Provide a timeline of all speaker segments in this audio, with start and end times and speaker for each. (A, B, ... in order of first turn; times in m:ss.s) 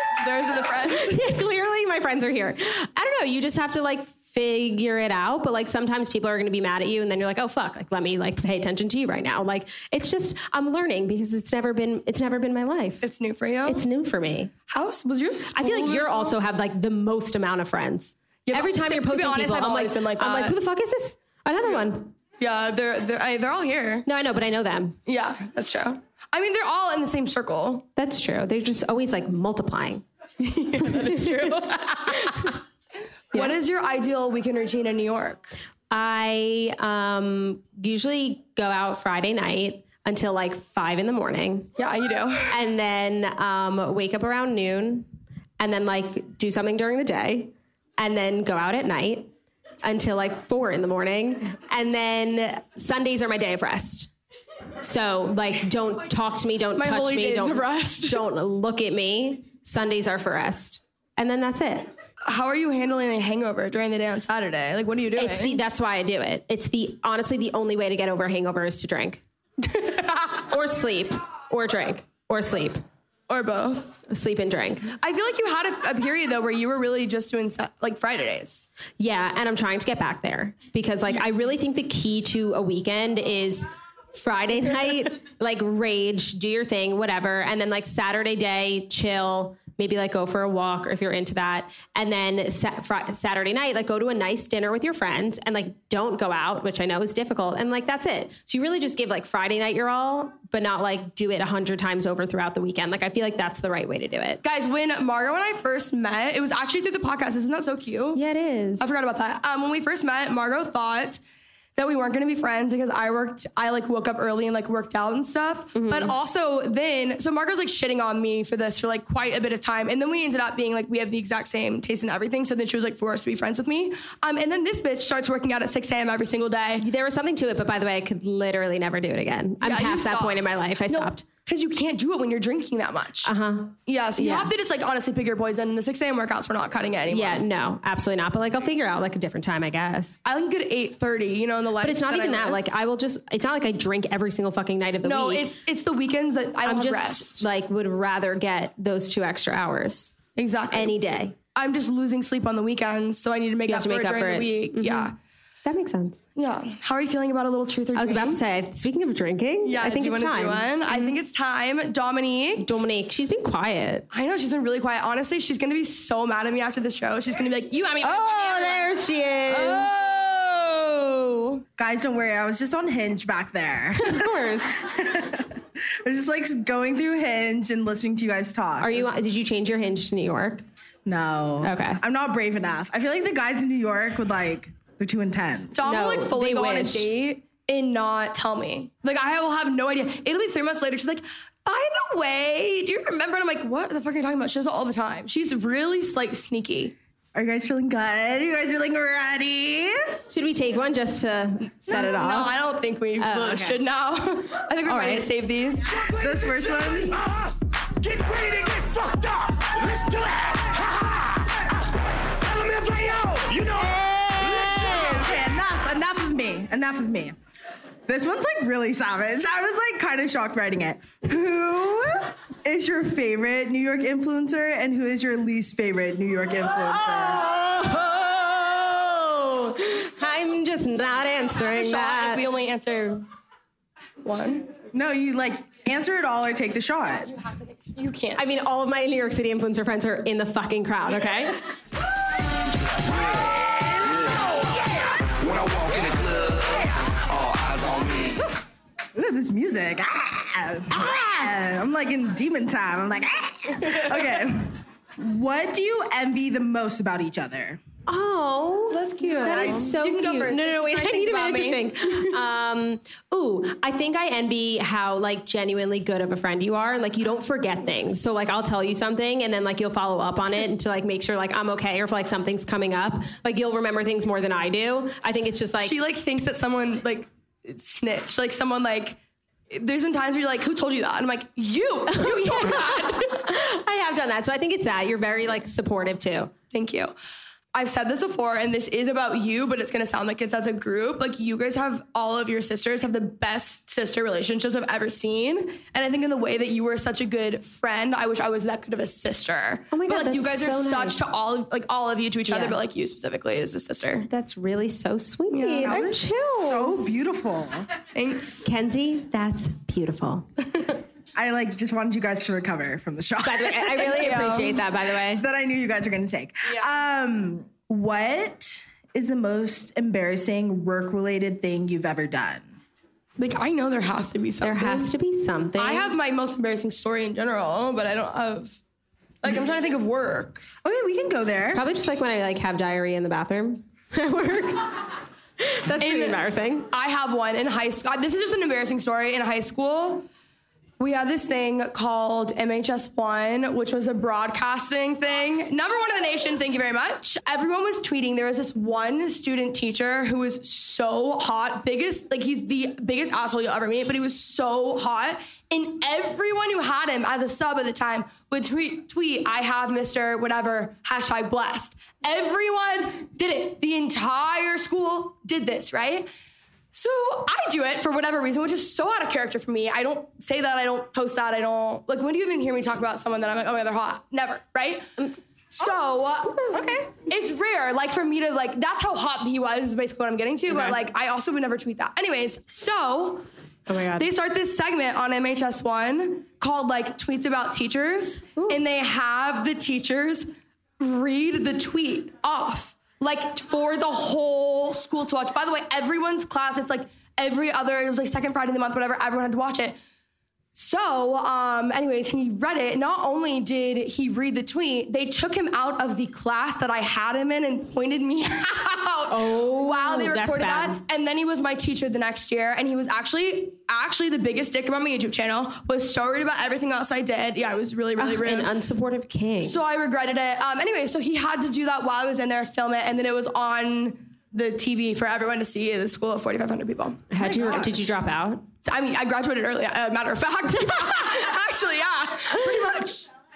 0:00.2-0:01.2 A
0:01.0-0:13.0 B
0:13.0-0:13.8 A
0:13.6-0:14.5 B
0:14.7-0:16.4 A
0:15.5-0:22.1 B
0:18.4-0:20.6 A
0:22.4-0:24.0 A
0:24.0-0:25.0 B
0:25.0-0:27.9 A
0:28.0-0:30.0 B
0:30.4-0:32.5 A
0:30.8-0:32.5 B
0:33.3-0:35.5 A
0:35.9-0:41.7 B
0:41.8-0:42.6 A
0:42.5-0:49.3 B
0:49.8-0:54.1 B
0:54.8-1:01.9 B
0:56.8-0:58.2 A
1:02.2-1:05.6 A
1:05.1-1:09.2 B
1:09.7-1:10.2 A
1:10.3-1:12.8 B
1:13.3-1:14.0 A
1:14.1-1:15.0 B
1:15.0-1:18.7 A
1:19.0-1:44.4 B
1:44.4-1:48.2 A
1:48.1-1:48.9 B
1:48.8-1:51.2 A
1:51.8-2:06.8 A
1:55.7-1:56.1 B
2:06.8-2:11.2 B
2:09.6-2:13.3 A
2:13.2-2:14.5 B
2:13.8-2:17.4 A
2:17.1-2:20.2 B
2:20.2-2:22.6 A
2:21.8-2:25.5 B
2:25.0-2:27.4 A
2:26.6-2:30.1 B
2:30.4-2:31.0 A
2:30.7-2:31.4 B
2:31.5-2:35.2 A
2:33.7-2:35.1 B
2:35.6-2:36.2 B
2:36.4-2:38.4 A
2:37.9-2:41.2 B
2:39.6-2:42.7 A
2:42.6-2:44.1 B
2:44.1-2:48.9 A
2:48.0-2:49.9 B
2:49.5-2:51.6 A
2:51.8-2:55.5 C
2:54.0-2:54.8 B
2:56.0-2:59.1 C
2:58.8-3:00.6 B
3:01.0-3:05.8 C
3:01.6-3:02.0 B
3:05.7-3:17.0 A
3:05.8-3:07.1 B
3:17.3-3:20.1 C
3:20.3-3:22.5 B
3:21.9-3:25.9 A
3:23.2-3:23.8 B
3:24.8-3:25.3 B
3:25.9-3:35.3 D
3:26.2-3:27.2 C
3:33.9-3:37.4 C
3:38.1-3:47.4 C
3:46.9-3:52.4 B
3:51.6-3:53.3 A
3:54.2-3:54.8 A
3:54.9-3:57.3 C
3:57.3-3:58.5 A
3:58.4-4:01.6 B
4:05.3-4:08.4 D
4:09.2-4:17.8 C
4:18.1-4:36.0 B
4:18.9-4:22.3 A
4:19.4-4:19.8 C
4:35.8-4:39.2 A
4:39.7-4:43.5 A
4:42.1-4:46.5 B
4:46.7-4:47.1 A
4:47.7-5:04.3 A
4:59.9-5:01.2 B
5:02.5-5:02.8 B
5:04.3-5:07.1 B
5:05.5-5:06.2 A
5:05.8-5:07.9 C
5:08.1-5:08.7 A
5:08.6-5:10.4 B
5:10.7-5:11.0 A
5:11.3-5:14.5 C
5:13.4-5:15.4 B
5:14.0-5:14.8 A
5:15.3-5:22.8 C
5:23.4-5:25.1 A
5:24.6-5:26.1 B
5:25.8-5:28.8 A
5:29.4-5:30.6 A
5:30.8-5:31.8 C
5:31.7-5:35.0 B
5:35.6-5:36.9 B
5:36.0-5:40.3 A
5:41.0-6:06.3 A
6:06.9-6:15.1 A
6:15.7-6:16.6 A
6:16.4-6:16.8 B
6:16.7-6:17.1 C
6:17.3-6:23.5 A
6:20.7-6:21.0 B
6:23.9-6:24.3 B
6:24.2-6:40.0 A
6:28.6-6:28.8 B
6:40.7-6:58.7 A
6:49.3-6:51.0 B
6:58.2-6:59.8 B
6:59.6-7:07.3 A
7:07.3-7:08.6 B
7:07.4-7:08.1 C
7:08.8-7:13.3 A